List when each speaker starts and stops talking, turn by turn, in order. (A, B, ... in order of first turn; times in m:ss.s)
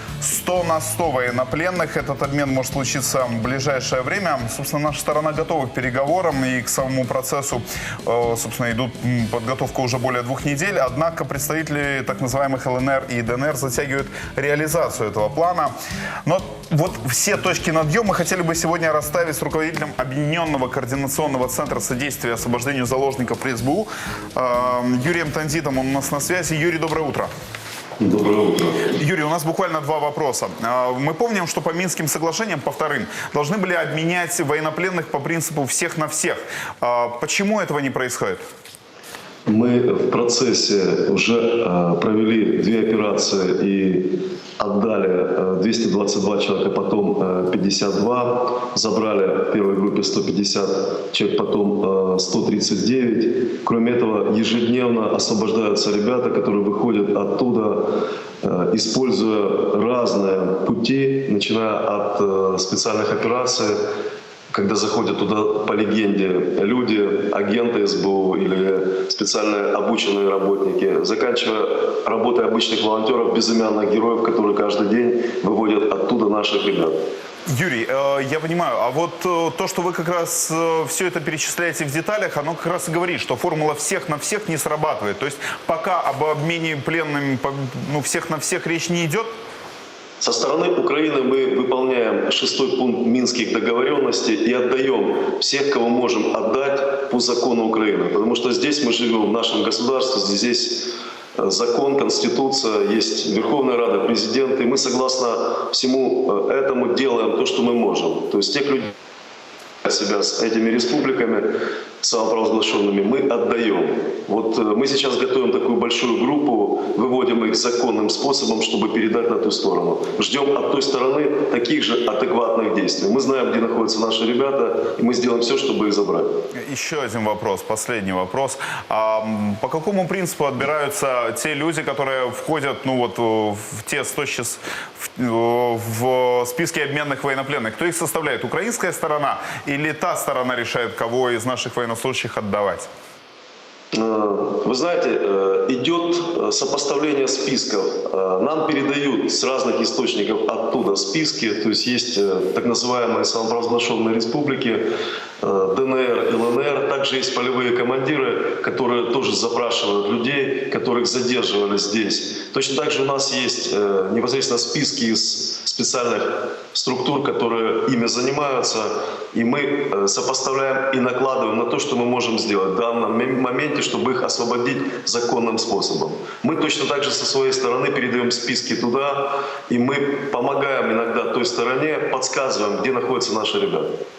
0:00.2-0:15.7 A
0:16.2-0:27.3 A
0:28.0-0:28.9 B
0:28.9-0:38.4 A
0:39.5-1:03.8 B
1:04.5-1:17.0 B
1:17.5-1:29.3 A
1:30.2-1:48.9 B
1:49.8-1:51.5 B
1:52.0-2:06.3 B
2:06.6-2:22.9 A
2:23.9-2:34.8 B
2:35.4-3:04.0 B